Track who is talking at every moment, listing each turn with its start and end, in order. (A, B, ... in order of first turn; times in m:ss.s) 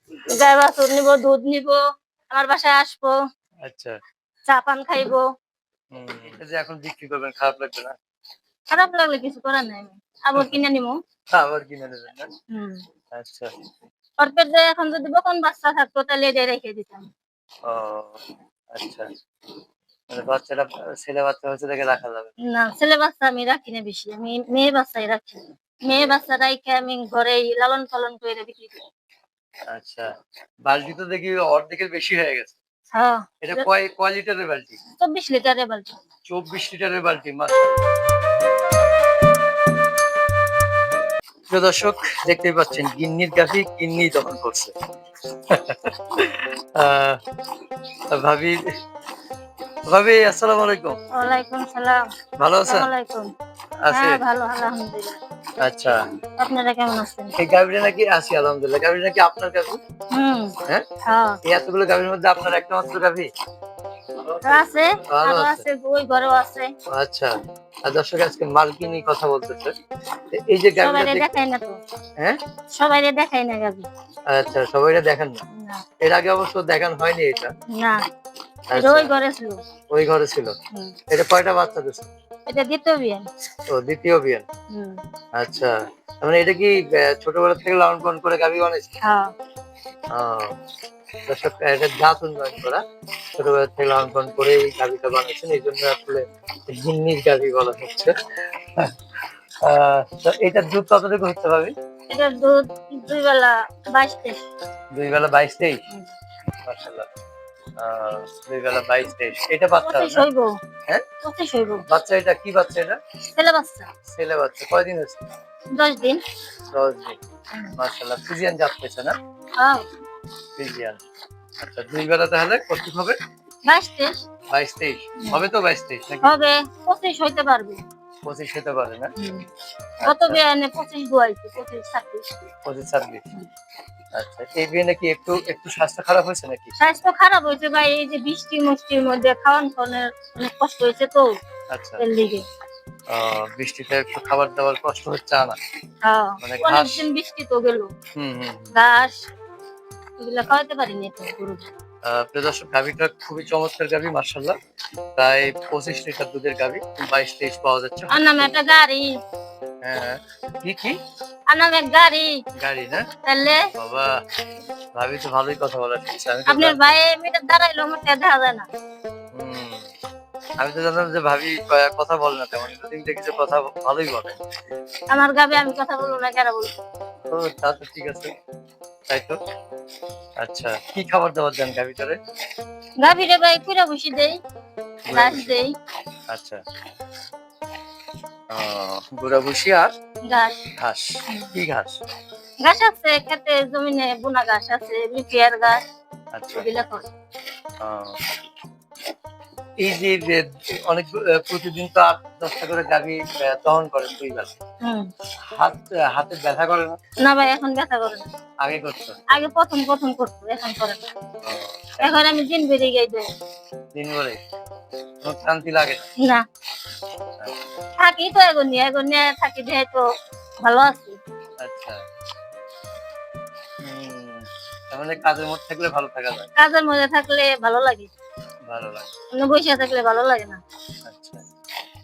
0:00.4-0:01.8 A
0:02.3-0:03.1 A
0:03.7-0:04.0 B
0:04.5-0:05.2 A
0:05.9-0:08.0 B
0:08.7-0:11.0 A
0:11.3-0:12.3 B
0:12.5-0:12.8 A
0:13.1-0:13.5 B
0:14.2-0:17.1 A
0:17.7-0:18.2 B
0:18.8-0:19.1 B
0:20.1-0:22.3 B
0:22.5-0:28.8 A
0:29.7-0:30.1 B
0:30.7-0:32.6 B
0:33.0-0:33.6 A
0:33.4-0:34.8 B
0:35.0-0:35.9 A
0:36.3-0:37.9 B
0:41.5-0:44.7 B
0:45.5-0:47.2 B
0:48.1-0:48.6 B
0:49.9-0:51.0 B
0:51.1-0:52.0 A
0:52.4-0:52.9 B
0:52.7-0:53.3 A
0:53.8-0:54.2 B
0:53.9-0:55.2 A
0:55.6-0:56.0 B
0:56.4-0:57.4 A
0:57.4-0:59.8 B
1:00.1-1:00.6 A
1:01.1-1:01.4 A
1:01.5-1:03.3 B
1:04.2-1:04.6 B
1:04.4-1:06.7 A
1:05.1-1:05.6 B
1:06.9-1:07.3 B
1:07.9-1:09.7 B
1:10.3-1:11.3 B
1:10.8-1:11.8 A
1:12.8-1:13.9 A
1:14.3-1:15.4 B
1:15.6-1:15.8 A
1:16.0-1:17.5 B
1:17.7-1:18.0 A
1:18.7-1:19.1 B
1:18.8-1:19.6 A
1:19.9-1:20.5 B
1:21.1-1:22.1 B
1:22.5-1:23.2 A
1:23.7-1:24.4 B
1:24.7-1:25.0 A
1:25.4-1:28.9 B
1:29.0-1:29.3 A
1:30.2-1:30.5 B
1:31.3-1:32.8 B
1:33.4-1:38.1 B
1:39.6-1:41.7 B
1:42.1-1:44.4 A
1:45.0-1:45.8 B
1:46.7-1:47.1 B
1:47.8-1:50.2 B
1:49.8-1:50.5 A
1:51.2-1:51.8 A
1:51.9-1:53.0 B
1:53.3-1:53.9 A
1:54.1-1:55.3 B
1:55.8-1:56.2 A
1:56.7-1:57.2 B
1:57.8-1:59.2 B
2:00.6-2:01.0 B
2:01.6-2:03.2 B
2:03.7-2:04.2 A
2:04.5-2:06.3 B
2:06.2-2:07.8 A
2:08.2-2:09.1 B
2:09.2-2:09.4 A
2:10.0-2:10.4 B
2:10.1-2:12.2 A
2:12.7-2:13.2 B
2:14.2-2:16.7 B
2:16.8-2:21.3 A
2:21.7-2:22.0 B
2:22.0-2:22.4 A
2:23.1-2:25.6 B
2:26.0-2:27.9 A
2:26.4-2:27.0 B
2:28.2-2:28.7 B
2:28.7-2:29.2 A
2:30.2-2:31.6 A
2:32.0-2:34.6 B
2:35.2-2:38.2 B
2:38.1-2:39.1 A
2:39.8-2:41.0 B
2:41.5-2:42.3 A
2:42.6-2:43.1 B
2:43.3-2:43.6 A
2:43.8-2:44.1 B
2:45.0-2:46.8 B
2:46.5-2:48.7 A
2:49.3-2:49.9 B
2:50.6-2:54.4 B
2:55.1-2:56.7 A
2:57.3-2:58.3 B
2:59.1-2:59.4 B
3:00.4-3:02.2 B
3:03.0-3:04.4 A
3:05.1-3:05.6 B
3:05.1-3:05.7 A
3:06.3-3:06.6 B
3:08.5-3:09.9 B
3:10.3-3:10.6 A
3:10.8-3:12.0 B
3:12.6-3:15.8 A
3:16.4-3:16.7 B
3:16.5-3:17.1 A
3:17.8-3:18.2 B
3:19.8-3:24.6 B
3:25.6-3:27.0 B
3:27.2-3:28.3 A
3:28.6-3:29.2 B
3:29.3-3:31.1 A
3:31.4-3:32.2 B
3:32.0-3:33.2 A
3:34.0-3:34.4 B
3:35.2-3:36.1 B
3:38.0-3:40.0 A
3:40.6-3:41.2 A
3:41.6-3:42.0 B
3:43.8-3:46.5 B
3:46.6-3:48.1 A
3:48.7-3:49.1 B
3:49.4-3:50.6 A
3:51.1-3:51.4 B